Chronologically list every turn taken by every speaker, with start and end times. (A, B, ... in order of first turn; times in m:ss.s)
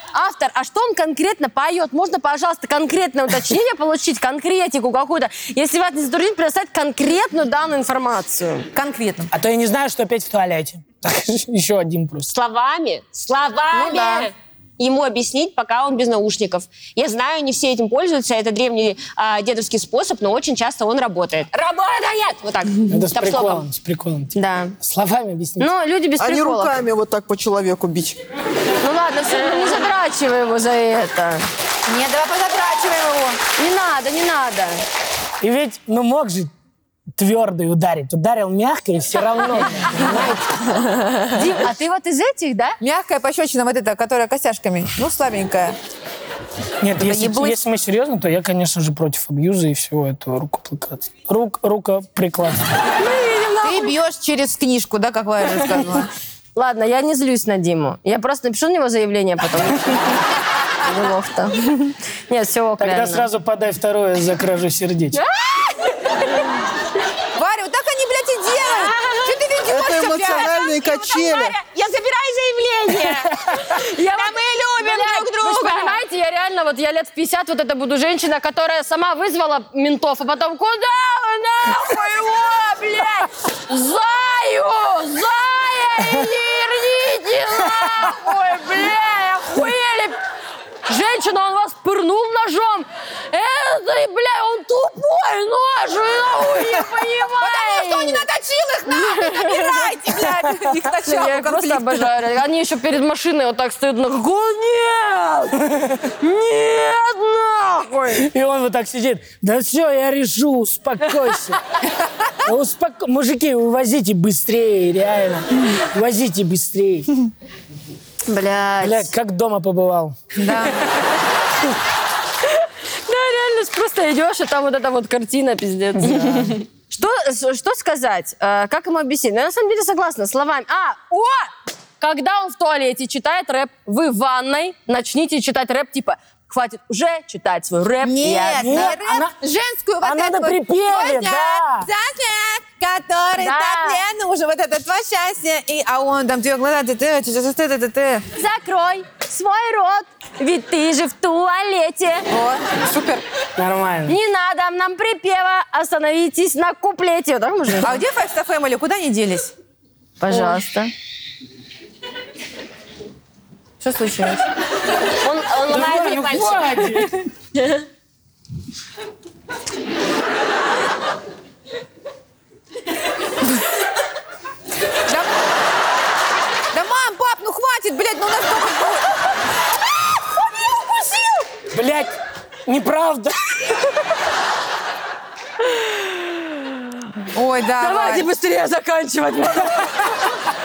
0:00.1-0:08.7 A
0:08.7-0:09.3 B
0:09.3-0:12.3 C
0:12.3-0:23.6 D
0:13.7-0:14.3 B
0:22.9-0:25.7 C
0:24.3-0:24.7 A
0:25.6-0:26.8 A
0:26.2-0:28.2 E
0:28.8-0:31.5 A
0:31.8-0:33.4 B
0:33.6-0:34.8 A
0:35.4-0:36.5 C
0:37.2-0:40.8 C
0:41.3-0:42.8 A
0:42.8-0:45.8 B
0:46.8-0:52.6 C
0:47.0-0:47.6 B
0:53.0-0:53.9 A
0:53.6-0:56.1 B
0:56.5-1:00.3 A
1:00.8-1:03.3 A
1:02.8-1:05.2 C
1:05.1-1:06.5 A
1:07.4-1:10.6 B
1:08.7-1:09.2 D
1:09.6-1:11.5 E
1:10.4-1:13.4 D
1:13.7-1:30.2 A
1:14.1-1:16.0 D
1:27.8-1:28.1 C
1:30.9-1:38.2 A
1:37.4-1:42.1 B
1:38.9-1:39.9 A
1:41.0-1:45.6 A
1:45.7-1:46.1 C
1:46.2-1:48.2 A
1:48.2-1:51.6 C
1:52.4-1:57.1 C
1:58.2-1:59.1 A
1:58.8-2:00.2 C
2:00.4-2:00.9 B
2:02.5-2:11.5 A
2:06.0-2:06.5 C
2:12.0-2:19.0 A
2:18.0-2:28.2 B
2:18.6-2:19.3 C
2:20.0-2:21.9 C
2:23.4-2:24.0 A
2:28.4-2:32.2 A
2:32.3-2:33.2 B
2:33.6-2:34.2 C
2:34.0-2:38.0 A
2:37.8-2:39.5 B
2:40.2-2:40.9 A
2:43.8-2:44.4 B
2:45.2-2:47.1 D
2:45.6-2:47.2 C
2:55.0-2:55.4 B
2:56.7-2:59.1 B
3:01.7-3:02.1 C
3:02.7-3:03.7 C
3:06.0-3:06.4 A
3:07.3-3:08.3 B
3:07.8-3:09.9 A